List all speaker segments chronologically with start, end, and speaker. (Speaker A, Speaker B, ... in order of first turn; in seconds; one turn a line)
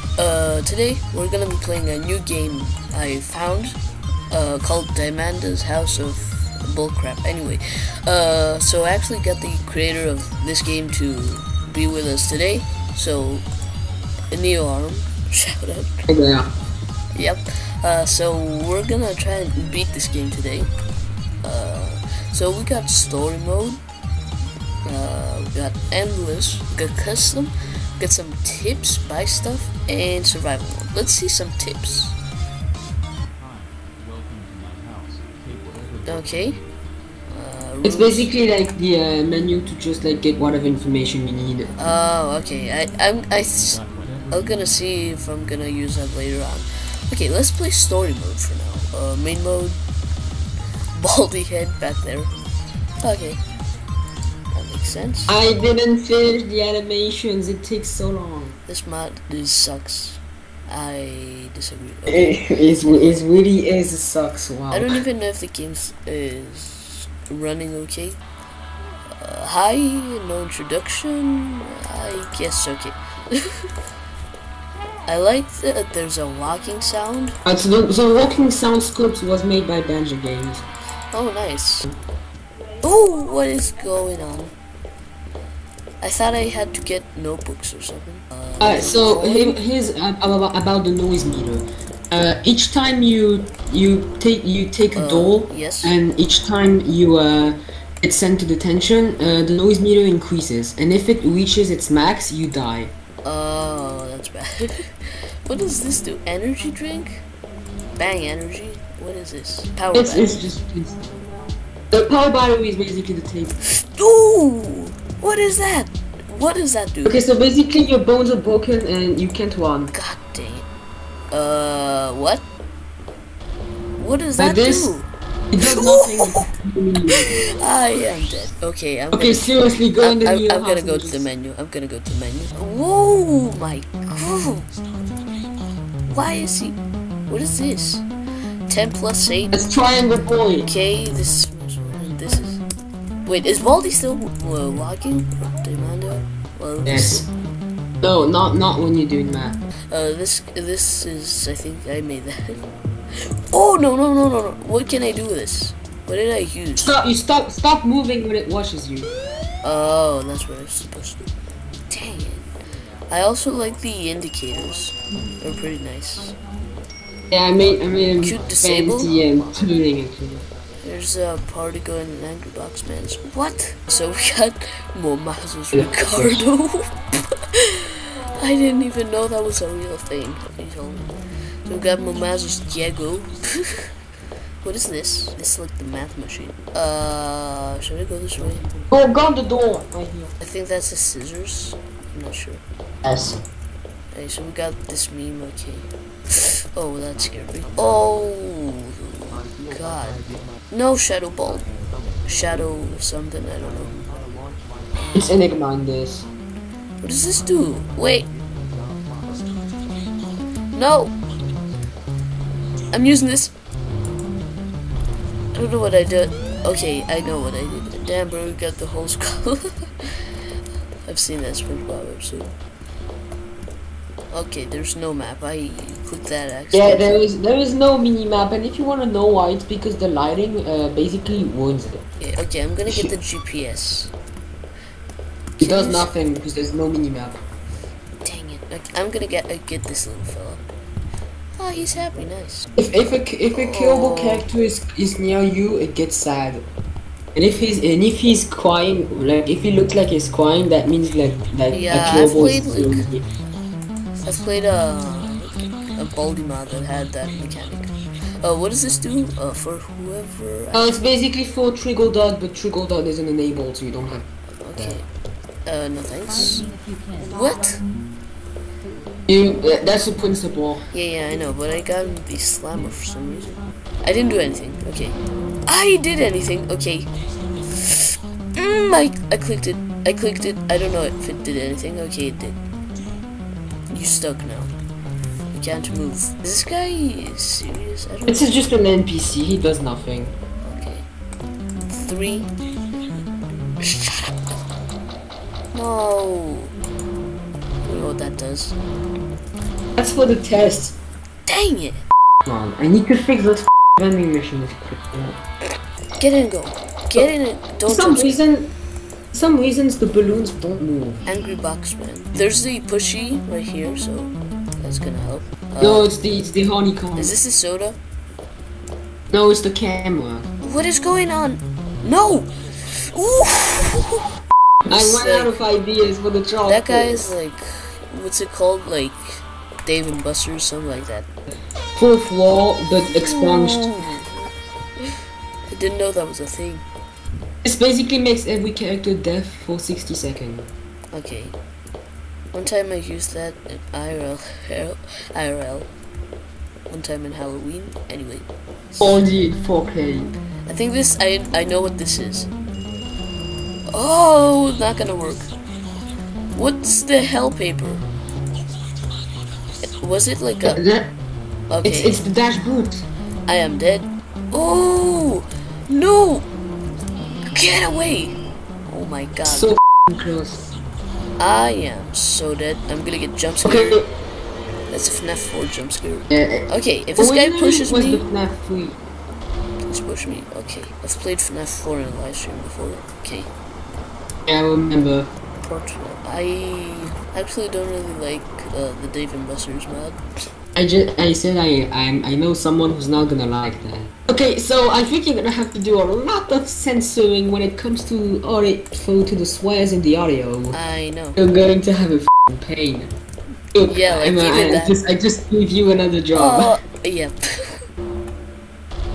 Speaker A: 0.2-3.8
Speaker A: 4.3-13.4
Speaker A: 14.3-15.9
Speaker B: 16.1-16.5
Speaker A: 17.1-20.7
Speaker A: 21.4-23.8
Speaker A: 24.8-32.2
Speaker A: 36.0-36.6
Speaker A: 37.3-38.3
Speaker B: 37.8-41.7
Speaker A: 41.8-49.8
Speaker A: 51.0-52.3
Speaker A: 53.0-53.4
Speaker A: 54.5-55.3
Speaker B: 55.3-58.5
Speaker A: 58.7-63.2
Speaker B: 62.1-64.9
Speaker A: 64.7-68.2
Speaker A: 69.1-73.4
Speaker A: 75.1-77.3
Speaker B: 77.5-80.6
Speaker A: 81.1-81.9
Speaker A: 82.8-84.5
Speaker A: 86.0-89.6
Speaker B: 88.6-102.9
Speaker A: 94.9-96.0
Speaker A: 103.2-104.5
Speaker A: 105.5-107.2
Speaker A: 108.0-110.4
Speaker B: 109.9-111.0
Speaker B: 111.9-113.5
Speaker A: 113.9-117.2
Speaker B: 117.0-119.9
Speaker A: 119.9-120.6
Speaker A: 121.3-122.4
Speaker A: 124.0-125.1
Speaker B: 124.4-124.9
Speaker B: 125.5-127.4
Speaker A: 125.6-126.3
Speaker A: 127.5-134.6
Speaker B: 129.1-131.2
Speaker A: 136.1-136.8
Speaker A: 137.3-138.0
Speaker A: 138.7-139.7
Speaker B: 139.5-140.7
Speaker A: 140.6-142.6
Speaker A: 143.2-147.3
Speaker B: 146.8-147.2
Speaker B: 148.0-149.6
Speaker A: 149.9-152.6
Speaker A: 153.5-156.9
Speaker B: 156.8-159.1
Speaker A: 159.6-161.3
Speaker A: 161.9-162.4
Speaker A: 163.1-166.3
Speaker B: 167.3-170.4
Speaker A: 168.2-169.1
Speaker A: 170.8-176.9
Speaker B: 175.7-176.4
Speaker A: 178.4-181.1
Speaker A: 181.7-183.7
Speaker A: 184.6-188.6
Speaker B: 188.9-190.3
Speaker A: 190.4-192.6
Speaker B: 193.0-193.4
Speaker A: 194.1-199.1
Speaker A: 199.7-201.7
Speaker A: 202.2-204.0
Speaker B: 205.1-206.3
Speaker A: 207.0-208.3
Speaker A: 210.7-211.1
Speaker A: 212.9-213.5
Speaker A: 215.5-219.7
Speaker A: 221.1-222.5
Speaker A: 224.3-227.1
Speaker B: 226.7-232.0
Speaker A: 232.2-234.1
Speaker B: 232.9-233.1
Speaker A: 235.6-236.1
Speaker B: 235.6-237.4
Speaker A: 238.2-240.6
Speaker A: 241.6-242.7
Speaker B: 242.8-246.6
Speaker A: 243.5-244.4
Speaker B: 247.3-253.2
Speaker A: 251.7-253.1
Speaker A: 254.2-257.9
Speaker A: 258.4-261.0
Speaker B: 260.7-264.2
Speaker A: 264.6-265.0
Speaker A: 265.6-266.7
Speaker A: 267.2-267.8
Speaker B: 269.3-270.8
Speaker A: 270.9-277.1
Speaker A: 278.6-282.6
Speaker A: 283.9-284.7
Speaker A: 285.5-288.5
Speaker B: 288.3-290.3
Speaker A: 290.6-291.1
Speaker A: 291.8-292.5
Speaker A: 293.8-294.3
Speaker A: 295.7-296.7
Speaker A: 297.8-298.8
Speaker B: 300.0-300.9
Speaker A: 301.5-302.0
Speaker B: 302.4-305.4
Speaker A: 306.2-308.4
Speaker B: 307.9-308.7
Speaker B: 309.3-311.2
Speaker A: 311.2-316.1
Speaker B: 315.8-317.3
Speaker A: 317.1-318.0
Speaker B: 319.3-320.5
Speaker A: 320.6-322.5
Speaker A: 323.1-324.2
Speaker B: 324.9-327.3
Speaker A: 324.9-325.5
Speaker A: 326.6-331.3
Speaker B: 331.9-334.0
Speaker A: 333.1-334.4
Speaker A: 335.7-336.8
Speaker B: 337.6-340.7
Speaker A: 341.1-341.5
Speaker A: 342.5-345.9
Speaker A: 346.9-349.0
Speaker B: 349.0-350.3
Speaker A: 350.7-352.5
Speaker A: 353.9-355.5
Speaker A: 356.5-358.0
Speaker A: 359.9-360.8
Speaker B: 360.6-361.1
Speaker A: 361.7-362.2
Speaker B: 361.8-363.0
Speaker A: 363.4-366.5
Speaker A: 367.5-368.3
Speaker A: 368.9-369.7
Speaker B: 369.5-370.6
Speaker A: 371.4-374.0
Speaker B: 373.6-374.1
Speaker A: 374.9-378.2
Speaker B: 376.3-376.6
Speaker B: 377.2-379.0
Speaker A: 379.9-383.5
Speaker B: 384.5-385.3
Speaker A: 385.6-390.2
Speaker B: 390.8-400.8
Speaker A: 400.7-401.4
Speaker B: 401.4-403.1
Speaker B: 403.7-406.8
Speaker A: 403.8-405.0
Speaker A: 406.3-407.4